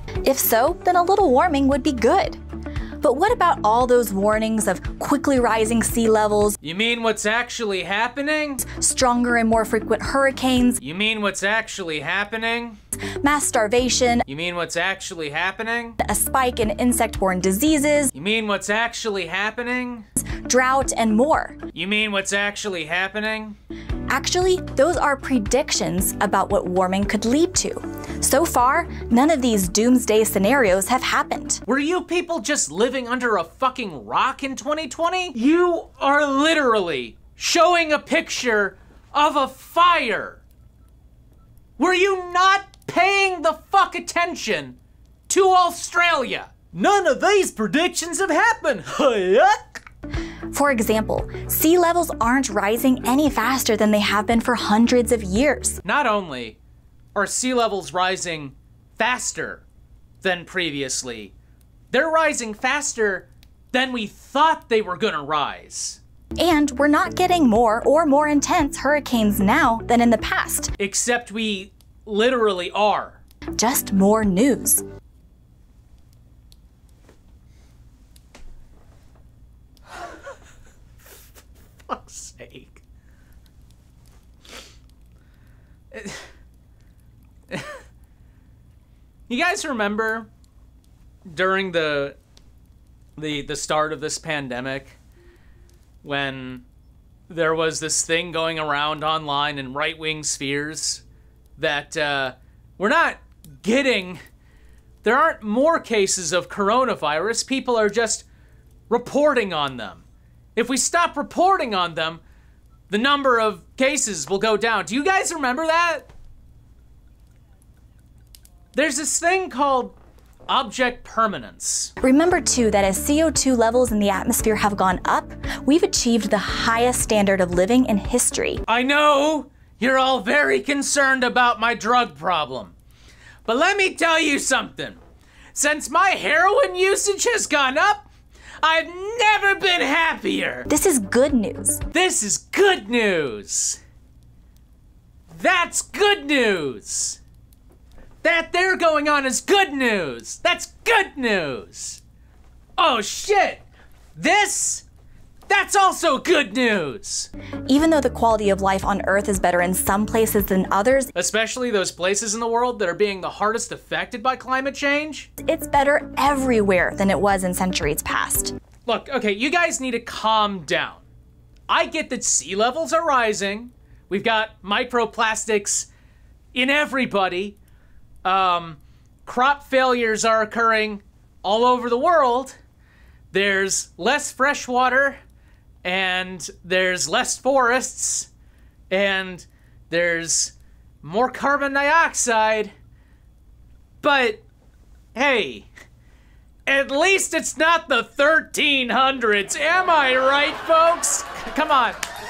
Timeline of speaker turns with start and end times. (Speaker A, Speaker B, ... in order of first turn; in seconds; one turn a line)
Speaker A: 0.2-2.4
Speaker A: 3.0-6.6
Speaker B: 6.6-8.6
Speaker A: 8.6-10.8
Speaker B: 10.8-12.8
Speaker A: 13.2-14.2
Speaker B: 14.3-16.0
Speaker A: 16.0-18.1
Speaker B: 18.1-20.1
Speaker A: 20.3-21.6
Speaker B: 21.7-23.6
Speaker A: 24.1-31.6
Speaker B: 31.7-40.4
Speaker B: 41.8-44.8
Speaker B: 45.3-49.8
Speaker A: 50.5-55.8
Speaker B: 55.8-56.6
Speaker B: 57.1-59.6
Speaker B: 60.2-61.3
Speaker B: 61.9-66.0
Speaker A: 66.4-70.7
Speaker B: 70.8-73.2
Speaker A: 73.6-74.8
Speaker B: 81.9-82.8
Speaker B: 85.9-86.3
Speaker B: 87.5-87.8
Speaker B: 89.3-90.3
Speaker B: 91.3-92.2
Speaker B: 93.2-95.0
Speaker B: 96.0-96.6
Speaker B: 97.3-101.0
Speaker B: 101.6-104.2
Speaker B: 105.0-108.2
Speaker B: 108.9-110.0
Speaker B: 110.5-112.2
Speaker B: 112.9-116.1
Speaker B: 118.7-120.0
Speaker B: 120.5-121.9
Speaker A: 122.0-128.6
Speaker B: 128.7-132.7
Speaker B: 133.4-135.0
Speaker B: 135.5-138.1
Speaker B: 138.6-140.7
Speaker A: 140.7-141.8
Speaker B: 141.9-143.8
Speaker B: 145.3-147.2
Speaker B: 148.2-152.0
Speaker B: 152.8-153.6
Speaker B: 154.2-154.8
Speaker B: 155.5-157.3
Speaker A: 157.7-161.1
Speaker B: 161.1-165.3
Speaker A: 165.4-168.5
Speaker B: 168.8-171.0
Speaker B: 171.7-175.9
Speaker B: 176.5-177.6
Speaker B: 178.2-182.6
Speaker B: 183.3-185.2
Speaker B: 185.8-188.3
Speaker B: 188.9-192.7
Speaker B: 194.0-194.4
Speaker B: 195.1-195.7
Speaker B: 196.7-202.0